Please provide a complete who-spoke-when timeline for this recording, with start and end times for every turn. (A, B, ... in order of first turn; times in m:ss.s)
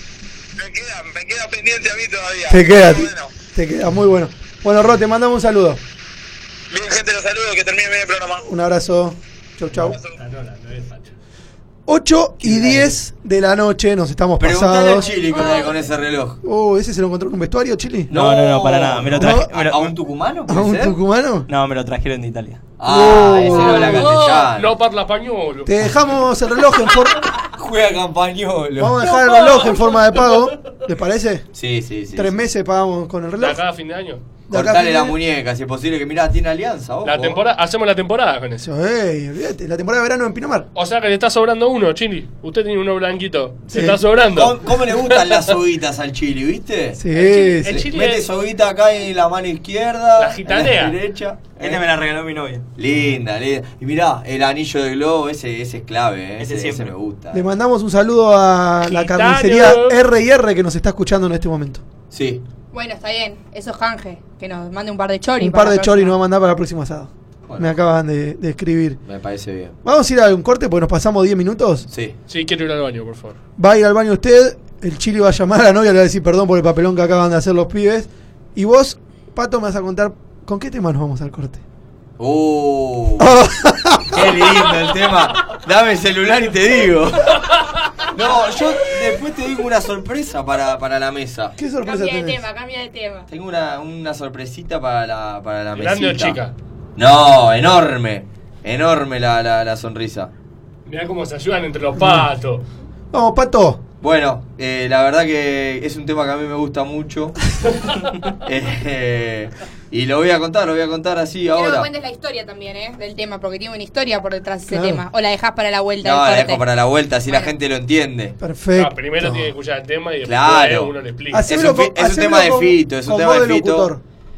0:00.6-0:03.3 A
0:02.5-0:05.8 B
0:06.7-0:08.4 A
0:08.4-0:10.0 B
0:09.8-0:10.2 A
0:10.1-0:11.1 C
0:11.9-0:15.1 B
0:12.4-0:12.9 D
0:14.4-0:16.4 D
0:16.4-0:18.1 B
0:18.1-0:21.0 D
0:18.1-0:19.9 E
0:19.2-0:19.5 B
0:20.5-0:21.5 B
0:21.5-0:22.6 E
0:22.8-0:24.7 D
0:22.9-0:24.1 B
0:24.1-0:25.7 C
0:25.7-0:27.2 B
0:27.6-0:29.0 D
0:28.8-0:31.5 B
0:31.6-0:32.4 D
0:32.1-0:33.6 B
0:33.4-0:34.2 C
0:34.5-0:35.1 B
0:34.5-0:37.4 D
0:37.0-0:38.6 C
0:38.6-0:40.7 B
0:40.7-0:45.3 C
0:43.7-0:47.0 D
0:47.0-0:47.8 B
0:47.1-0:48.3 C
0:47.7-0:51.9 D
0:50.2-0:51.0 C
0:51.6-0:52.7 E
0:52.8-0:57.4 D
0:56.4-0:56.9 E
0:57.3-1:01.8 B
0:58.8-1:00.0 C
1:02.1-1:02.4 D
1:02.7-1:06.1 F
1:05.4-1:09.0 B
1:09.0-1:09.7 D
1:09.8-1:11.9 B
1:12.3-1:13.4 C
1:13.6-1:21.6 B
1:22.2-1:23.3 D
1:23.2-1:24.3 B
1:24.1-1:27.4 D
1:28.1-1:31.6 D
1:31.6-1:32.4 B
1:31.8-1:33.3 F
1:33.3-1:36.4 D
1:35.7-1:36.5 C
1:37.0-1:40.3 D
1:40.9-1:42.6 C
1:42.0-1:42.3 B
1:43.1-1:43.8 B
1:44.0-1:47.4 D
1:48.4-1:51.9 D
1:51.5-1:56.6 F
1:54.7-1:55.0 B
1:56.0-1:58.4 D
1:57.3-1:57.5 F
1:58.4-1:59.5 B
1:58.8-2:01.4 C
2:00.2-2:00.9 D
2:01.3-2:04.0 B
2:01.5-2:03.9 D